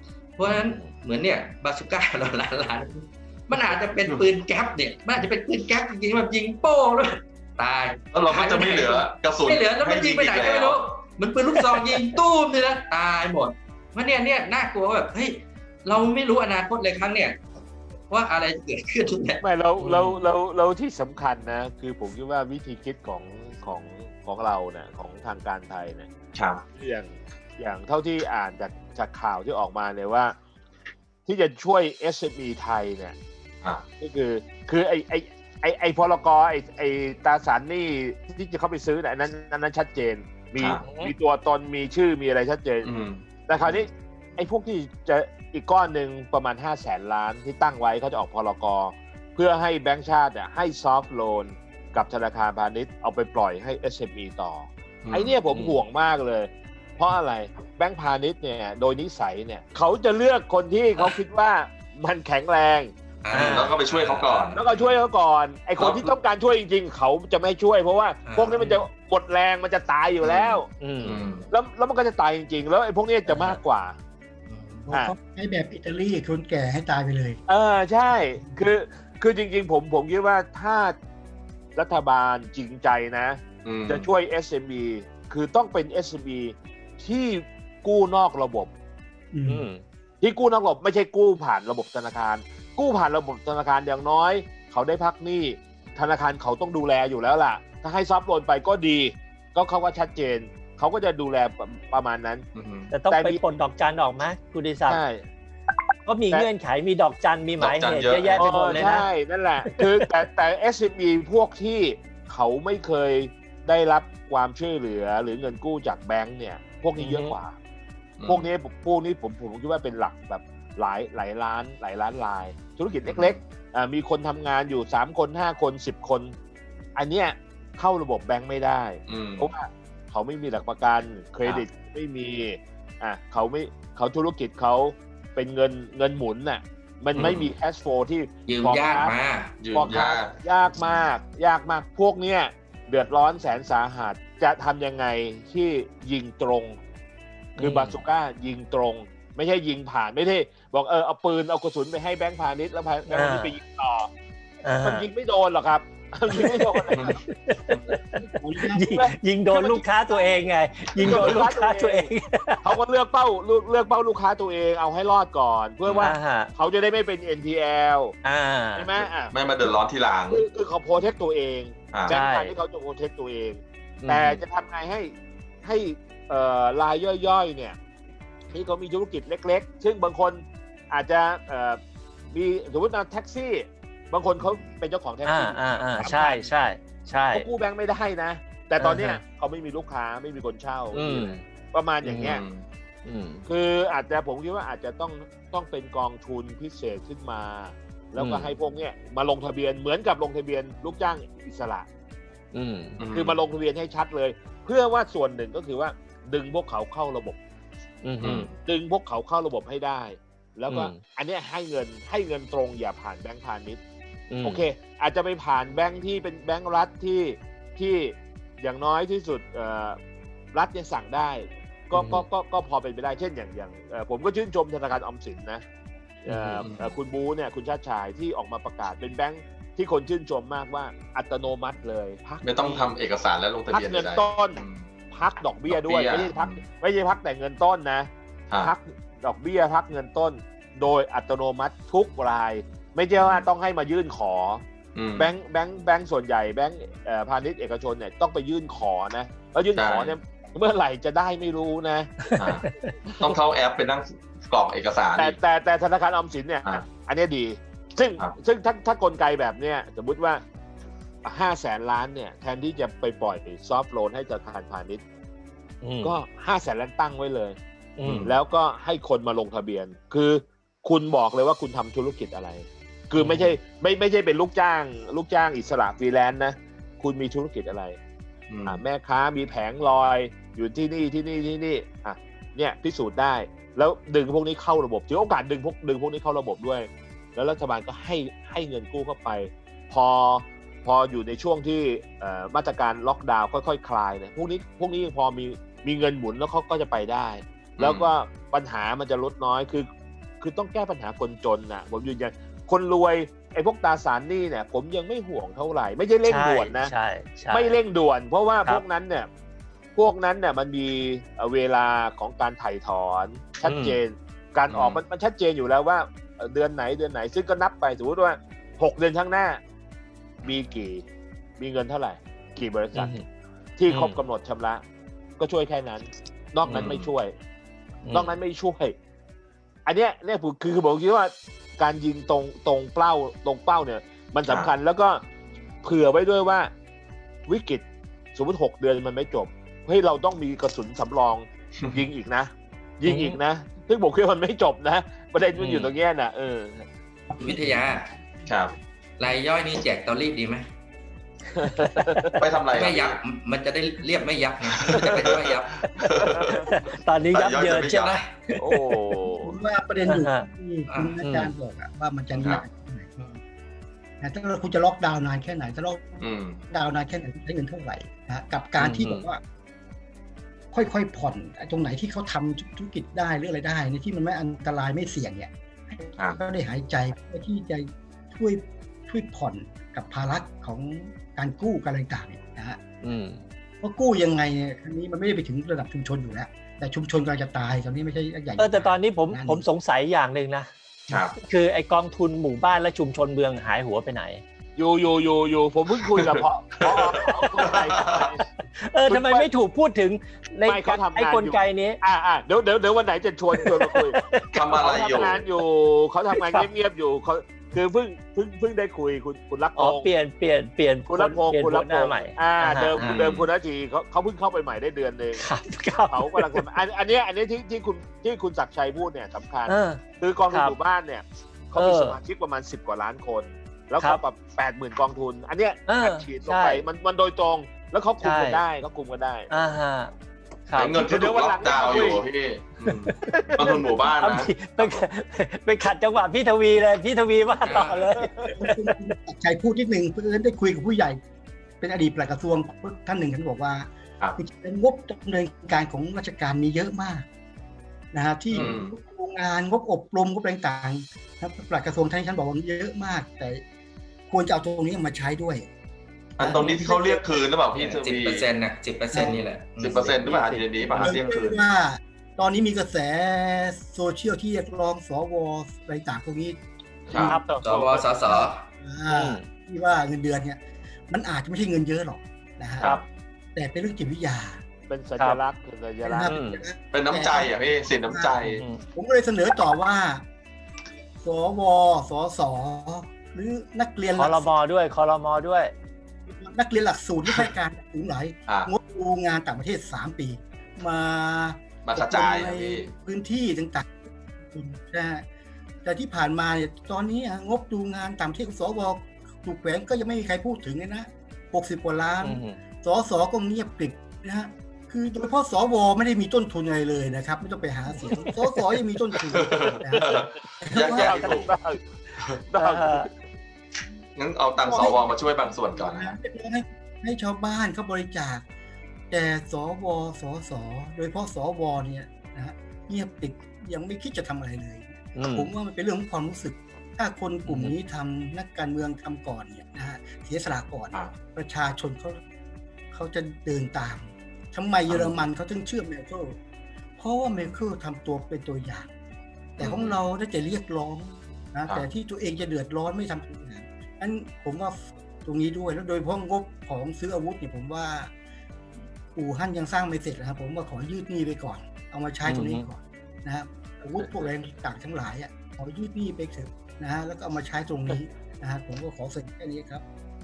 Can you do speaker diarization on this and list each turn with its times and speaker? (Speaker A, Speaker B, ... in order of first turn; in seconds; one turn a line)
Speaker A: 0.4-17.4
Speaker B: 0.6-0.9
Speaker C: 3.5-4.2
Speaker C: 8.1-10.8
Speaker A: 18.1-19.4
Speaker D: 19.4-26.1
Speaker B: 19.8-20.2
Speaker C: 26.3-26.6
Speaker D: 26.8-30.3
Speaker D: 31.2-33.1
Speaker D: 34.0-42.9
Speaker C: 40.6-40.8
Speaker B: 40.8-41.1
Speaker C: 42.8-43.7
Speaker D: 43.5-62.9
Speaker C: 55.0-55.3
Speaker B: 55.5-55.8
Speaker A: 63.2-65.0
Speaker B: 63.3-63.7
Speaker C: 63.3-64.5
Speaker D: 64.5-70.7
Speaker C: 65.8-66.0
Speaker A: 68.2-68.6
Speaker B: 68.5-68.8
Speaker B: 70.8-71.2
Speaker C: 71.0-71.4
Speaker A: 71.0-71.4
Speaker D: 71.5-74.0
Speaker B: 73.2-73.6
Speaker A: 74.5-74.8
Speaker E: 74.9-77.4
Speaker D: 77.5-80.9
Speaker D: 81.8-88.7
Speaker C: 83.6-84.1
Speaker E: 89.3-89.7
Speaker B: 89.5-89.8
Speaker D: 90.2-102.4
Speaker C: 102.5-102.9
Speaker B: 102.9-105.0
Speaker D: 103.0-103.4
Speaker D: 104.9-105.2
Speaker B: 106.0-109.1
Speaker C: 107.6-108.5
Speaker D: 108.3-117.5
Speaker B: 117.0-117.3
Speaker C: 118.2-118.5
Speaker D: 118.2-126.3
Speaker C: 123.0-123.4
Speaker D: 127.0-139.2
Speaker C: 129.1-129.5
Speaker C: 137.2-137.5
Speaker A: 138.5-139.6
Speaker C: 139.6-140.4
Speaker D: 139.7-146.8
Speaker B: 147.6-148.0
Speaker D: 147.6-154.1
Speaker B: 153.1-153.5
Speaker B: 154.6-155.1
Speaker D: 154.8-157.1
Speaker B: 156.3-162.7
Speaker E: 158.3-158.8
Speaker D: 158.9-160.4
Speaker D: 161.0-162.1
Speaker C: 161.0-161.4
Speaker D: 162.6-168.1
Speaker C: 165.8-166.2
Speaker B: 166.0-166.5
Speaker B: 168.2-168.9
Speaker D: 168.8-169.3
Speaker C: 169.3-170.4
Speaker D: 170.3-177.8
Speaker C: 171.9-172.2
Speaker B: 172.1-172.5
Speaker B: 174.0-174.4
Speaker D: 178.5-181.8
Speaker D: 182.3-186.5
Speaker B: 185.2-187.5
Speaker D: 187.3-192.4
Speaker B: 188.8-189.2
Speaker B: 190.9-191.4
Speaker B: 192.0-192.4
Speaker C: 192.2-192.7
Speaker B: 193.0-193.4
Speaker D: 193.4-201.8
Speaker B: 198.2-198.5
Speaker B: 202.5-203.0
Speaker C: 203.0-203.4
Speaker D: 203.1-207.4
Speaker B: 208.0-208.5
Speaker C: 208.2-208.5
Speaker D: 208.5-213.8
Speaker B: 210.7-211.0
Speaker B: 214.3-214.6
Speaker D: 214.4-220.0
Speaker D: 220.5-225.6
Speaker B: 221.9-222.3
Speaker B: 226.2-226.6
Speaker D: 226.2-232.9
Speaker C: 226.6-226.9
Speaker C: 232.4-234.9
Speaker D: 233.7-244.6
Speaker C: 235.7-236.6
Speaker C: 243.2-243.5
Speaker C: 244.9-245.3
Speaker D: 245.2-252.3
Speaker C: 249.7-250.1
Speaker B: 252.2-252.9
Speaker C: 252.3-252.6
Speaker C: 253.2-255.4
Speaker D: 255.1-260.4
Speaker D: 261.2-265.0
Speaker B: 265.8-266.1
Speaker D: 266.0-267.6
Speaker B: 268.0-268.3
Speaker C: 268.0-268.4
Speaker D: 268.2-278.0
Speaker B: 273.1-273.5
Speaker C: 278.5-278.8
Speaker D: 278.6-299.9
Speaker C: 297.8-298.1
Speaker D: 300.4-306.9
Speaker B: 306.2-307.8
Speaker D: 307.5-309.3
Speaker D: 309.9-319.6
Speaker B: 313.6-314.0
Speaker C: 314.7-315.0
Speaker D: 320.4-321.0
Speaker D: 321.6-323.1
Speaker B: 322.9-323.2
Speaker D: 323.8-324.8
Speaker B: 323.9-324.2
Speaker D: 325.4-327.3
Speaker B: 326.7-326.9
Speaker C: 326.7-327.0
Speaker B: 328.0-328.3
Speaker D: 328.1-328.9
Speaker D: 329.9-335.2
Speaker D: 335.8-336.7
Speaker D: 337.5-337.8
Speaker D: 338.3-346.9
Speaker B: 343.1-343.4
Speaker B: 345.6-345.9
Speaker A: 347.4-348.1
Speaker C: 348.5-348.7
Speaker A: 349.2-350.7
Speaker D: 351.5-352.4
Speaker B: 351.6-352.2
Speaker C: 352.4-353.2
Speaker A: 352.7-355.7
Speaker C: 354.8-356.7
Speaker D: 356.3-356.7
Speaker B: 356.7-358.2
Speaker C: 357.3-358.1
Speaker A: 357.9-358.3
Speaker D: 358.6-359.6
Speaker E: 359.3-363.2
Speaker B: 360.1-360.5
Speaker A: 360.9-361.2
Speaker B: 361.2-361.5
Speaker C: 362.3-362.6
Speaker E: 364.2-369.4
Speaker C: 366.2-366.6
Speaker B: 368.8-369.3
Speaker E: 370.7-382.8
Speaker B: 383.0-383.4
Speaker E: 383.8-389.6
Speaker B: 388.6-390.7
Speaker C: 391.1-391.4
Speaker B: 391.4-394.4
Speaker D: 394.8-398.4
Speaker C: 396.0-398.3
Speaker B: 397.2-397.5
Speaker B: 398.8-402.0
Speaker D: 399.1-399.5
Speaker D: 400.6-410.1
Speaker B: 403.5-405.2
Speaker C: 404.5-405.4
Speaker B: 406.3-406.7
Speaker B: 409.8-413.1
Speaker D: 411.1-415.4
Speaker C: 413.0-413.5
Speaker B: 415.3-416.6
Speaker D: 416.1-429.5
Speaker B: 419.6-420.8
Speaker B: 421.7-422.2
Speaker B: 425.9-426.8
Speaker B: 428.2-428.6
Speaker B: 429.5-430.1
Speaker B: 430.7-431.0
Speaker C: 430.8-435.0
Speaker D: 430.9-432.2
Speaker B: 431.7-432.1
Speaker B: 432.8-438.9
Speaker A: 437.6-438.1
Speaker D: 438.2-438.5
Speaker E: 438.4-441.2
Speaker E: 441.8-447.2
Speaker E: 448.1-453.6
Speaker C: 448.5-448.9
Speaker E: 454.3-455.7
Speaker E: 456.4-457.4
Speaker C: 456.4-458.5
Speaker A: 457.7-460.9
Speaker C: 459.2-461.6
Speaker E: 461.0-467.4
Speaker C: 467.1-467.4
Speaker D: 467.1-468.0
Speaker B: 467.2-467.6
Speaker A: 467.6-468.6
Speaker E: 468.1-472.9
Speaker B: 469.1-469.5
Speaker E: 473.5-474.6
Speaker D: 474.9-476.3
Speaker E: 476.0-480.2
Speaker B: 476.2-476.6
Speaker C: 476.9-478.6
Speaker B: 478.6-478.8
Speaker E: 481.2-484.6
Speaker B: 484.1-485.7
Speaker E: 486.3-495.2
Speaker C: 491.8-492.9
Speaker E: 495.8-511.2
Speaker B: 502.2-502.6
Speaker B: 507.9-508.6
Speaker C: 509.3-511.5
Speaker D: 510.0-510.3
Speaker B: 510.8-511.6
Speaker D: 510.8-511.9
Speaker D: 512.5-513.1
Speaker B: 512.6-513.1
Speaker C: 514.1-516.1
Speaker E: 514.6-518.4
Speaker E: 519.1-532.2
Speaker B: 525.1-525.5
Speaker B: 527.4-527.7
Speaker E: 532.9-536.4
Speaker B: 534.9-535.2
Speaker E: 537.0-538.9
Speaker E: 539.6-548.1
Speaker C: 539.6-540.0
Speaker E: 549.1-559.8
Speaker B: 552.2-552.7